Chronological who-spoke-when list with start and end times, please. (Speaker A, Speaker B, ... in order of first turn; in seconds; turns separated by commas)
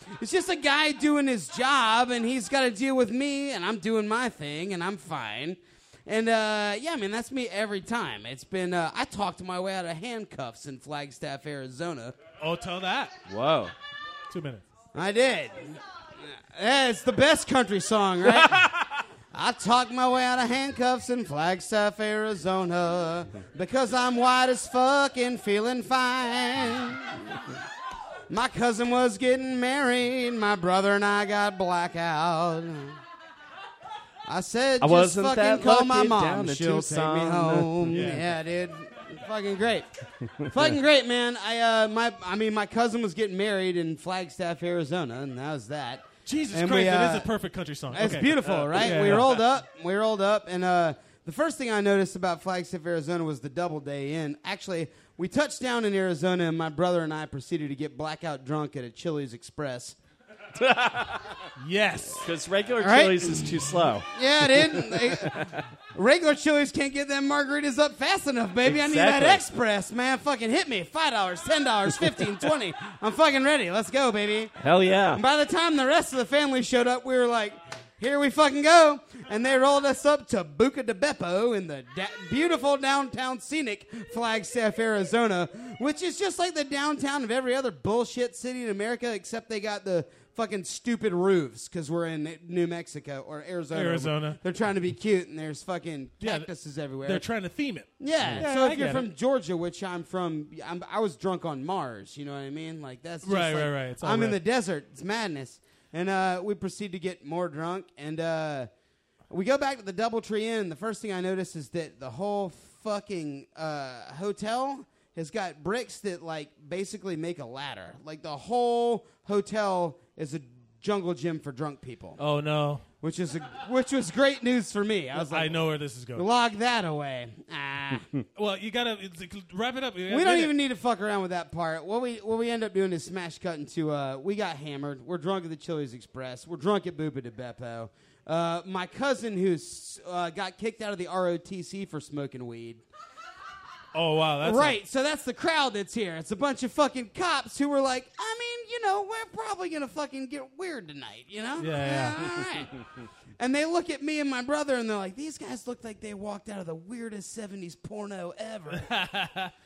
Speaker A: 0.2-12.2, Speaker B: 12.4-13.2, Speaker C: 13.3-13.7, Speaker B: 14.3-14.6, Speaker A: 14.9-15.8, Speaker A: 16.5-18.8, Speaker A: 19.3-27.1, Speaker A: 28.3-33.0, Speaker A: 34.3-39.9, Speaker C: 34.8-37.9, Speaker B: 37.9-38.3, Speaker A: 40.5-47.3, Speaker B: 46.3-49.5, Speaker A: 47.9-60.0, Speaker C: 60.6-61.2, Speaker B: 61.6-62.3, Speaker C: 62.2-65.6, Speaker A: 62.8-63.5, Speaker A: 64.1-65.3, Speaker A: 66.0-74.5, Speaker C: 68.7-69.5, Speaker C: 74.6-75.2, Speaker A: 75.1-97.3, Speaker B: 93.7-94.4, Speaker B: 96.2-96.5, Speaker B: 97.0-99.1, Speaker A: 98.0-108.7, Speaker B: 103.2-104.4, Speaker A: 109.3-122.2, Speaker B: 122.2-122.8, Speaker A: 123.0-125.6, Speaker B: 125.2-126.3, Speaker A: 126.2-128.1, Speaker B: 128.4-130.6, Speaker A: 130.1-142.8, Speaker B: 143.9-144.8, Speaker A: 144.4-152.7, Speaker B: 151.6-152.3, Speaker A: 153.4-158.9, Speaker B: 158.7-159.5